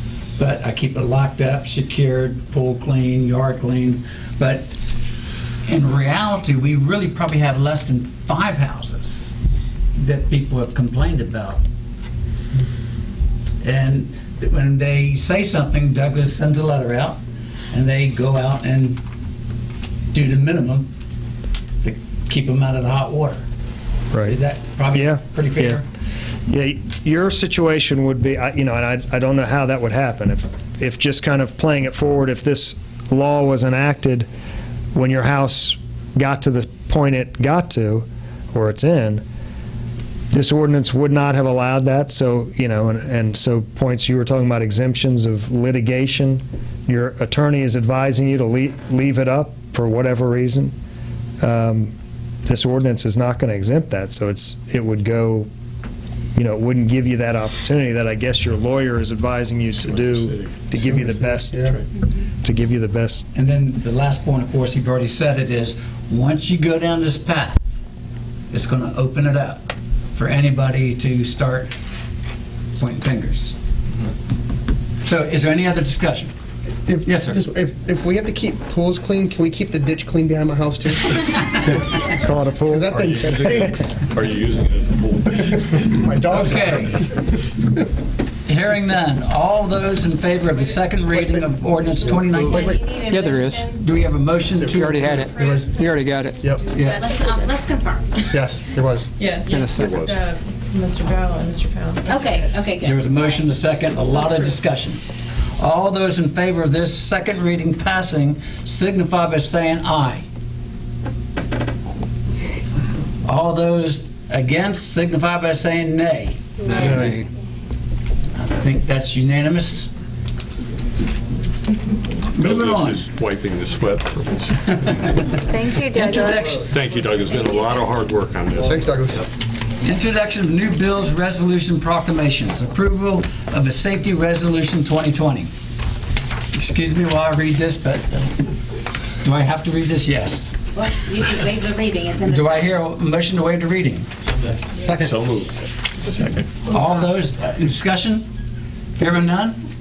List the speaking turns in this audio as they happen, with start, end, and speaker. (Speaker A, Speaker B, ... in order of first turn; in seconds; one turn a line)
Speaker A: 0.4-4.7
Speaker A: 5.7-9.3
Speaker A: 10.0-11.6
Speaker A: 13.6-17.2
Speaker A: 17.7-19.0
Speaker A: 20.1-20.9
Speaker A: 21.8-23.4
Speaker A: 24.3-25.9
Speaker B: 24.9-25.8
Speaker B: 26.5-34.3
Speaker B: 34.9-39.2
Speaker B: 40.3-50.7
Speaker B: 51.4-51.9
Speaker B: 52.5-55.5
Speaker B: 56.4-61.8
Speaker C: 59.9-60.3
Speaker D: 60.8-61.8
Speaker B: 62.4-63.3
Speaker A: 63.4-67.6
Speaker A: 68.5-69.6
Speaker A: 70.2-71.7
Speaker A: 72.8-73.5
Speaker A: 75.0-76.3
Speaker D: 76.9-81.5
Speaker A: 77.0-77.4
Speaker B: 82.0-83.6
Speaker D: 82.7-84.0
Speaker C: 83.0-83.3
Speaker C: 84.1-85.4
Speaker D: 85.4-86.9
Speaker A: 86.3-87.1
Speaker A: 88.5-92.8
Speaker D: 91.1-91.4
Speaker E: 91.9-93.8
Speaker D: 92.0-93.0
Speaker F: 93.1-93.6
Speaker A: 93.7-95.2
Speaker D: 94.6-95.8
Speaker F: 94.8-96.3
Speaker E: 95.0-96.1
Speaker E: 96.7-98.4
Speaker A: 96.7-97.1
Speaker D: 98.3-99.1
Speaker G: 99.2-102.5
Speaker F: 99.5-99.9
Speaker C: 99.8-100.2
Speaker E: 102.0-103.6
Speaker A: 102.8-105.0
Speaker A: 105.6-110.2
Speaker A: 113.2-116.9
Speaker D: 116.7-117.2
Speaker A: 118.4-119.9
Speaker A: 122.3-123.0
Speaker C: 122.4-124.7
Speaker A: 124.7-126.8
Speaker F: 125.5-126.5
Speaker C: 126.7-128.8
Speaker E: 127.0-127.7
Speaker D: 128.6-129.3
Speaker A: 129.8-135.5
Speaker A: 136.5-138.3
Speaker A: 139.2-140.5
Speaker E: 140.7-142.6
Speaker A: 142.3-144.1
Speaker D: 144.8-145.1
Speaker C: 145.0-145.5
Speaker A: 146.7-148.3
Speaker A: 149.0-149.6